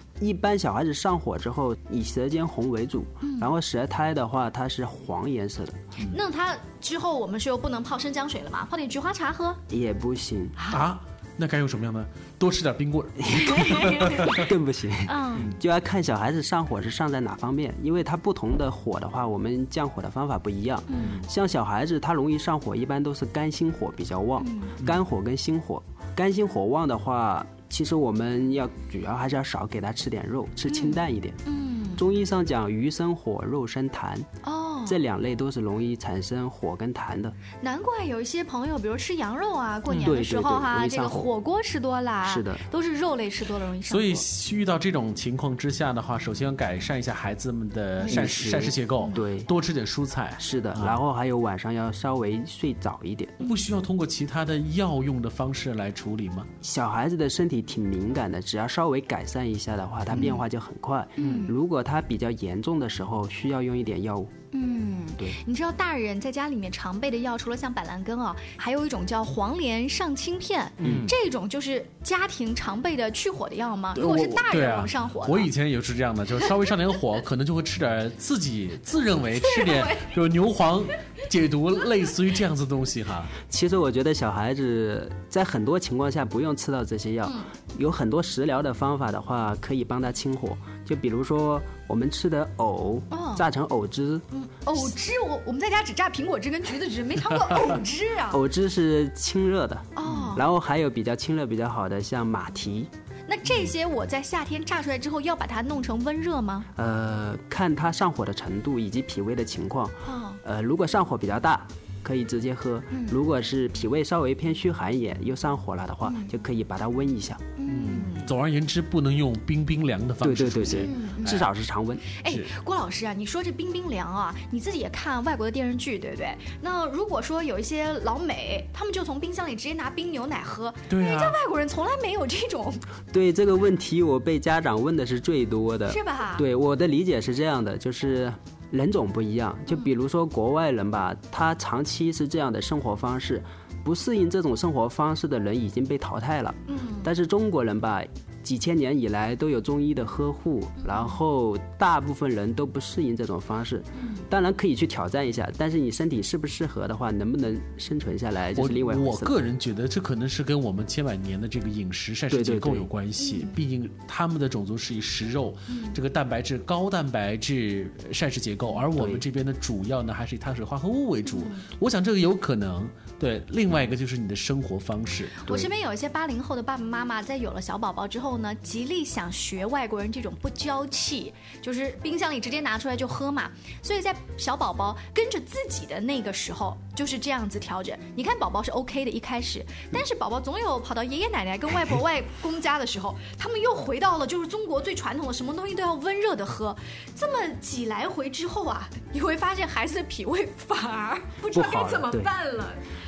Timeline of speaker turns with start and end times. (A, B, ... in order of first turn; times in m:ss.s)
0:00.2-0:06.0 A
0:03.2-0:03.5 B
0:06.1-0:09.6 B
0:09.7-0:10.6 A
0:10.6-0:10.8 B
0:10.7-0:14.5 C
0:13.3-0:13.6 A
0:13.4-0:14.4 B
0:14.3-0:31.4 A
0:15.1-0:15.5 B
0:20.9-0:21.2 B
0:21.0-0:21.2 C
0:24.4-0:24.8 B
0:30.7-0:32.1 B
0:32.0-0:34.3 A
0:34.4-0:35.0 B
0:34.9-0:37.4 A
0:37.6-0:44.2 B
0:40.0-0:41.3 A
0:42.2-0:42.6 A
0:43.9-0:51.0 C
0:48.0-0:48.3 B
0:48.1-0:49.5 A
0:50.4-0:53.4 A
0:53.4-0:56.5 C
0:56.6-1:04.3 A
1:01.2-1:01.5 B
1:04.5-1:15.5 B
1:10.8-1:11.1 C
1:14.0-1:23.4 C
1:19.4-1:20.1 B
1:23.5-1:34.2 A
1:33.1-1:33.5 B
1:34.3-1:38.4 B
1:38.3-1:42.9 A
1:40.0-1:40.4 B
1:43.3-1:46.7 B
1:46.8-1:57.5 A
1:50.1-1:50.4 B
1:52.9-1:53.2 B
1:56.0-1:56.3 B
1:57.6-1:58.3 B
1:57.7-2:01.5 C
2:00.2-2:02.1 A
2:00.7-2:01.4 B
2:02.1-2:12.8 B
2:10.9-2:11.4 C
2:13.1-2:39.4 A
2:15.9-2:16.4 B
2:26.7-2:27.1 B
2:30.9-2:31.2 B
2:34.0-2:34.2 B
2:38.6-2:55.4 C
2:42.3-2:42.9 A
2:43.2-2:43.5 B
2:45.7-2:46.0 B
2:49.0-2:49.2 A
2:51.2-2:51.6 B
2:55.4-3:22.8 B
3:21.5-3:22.3 A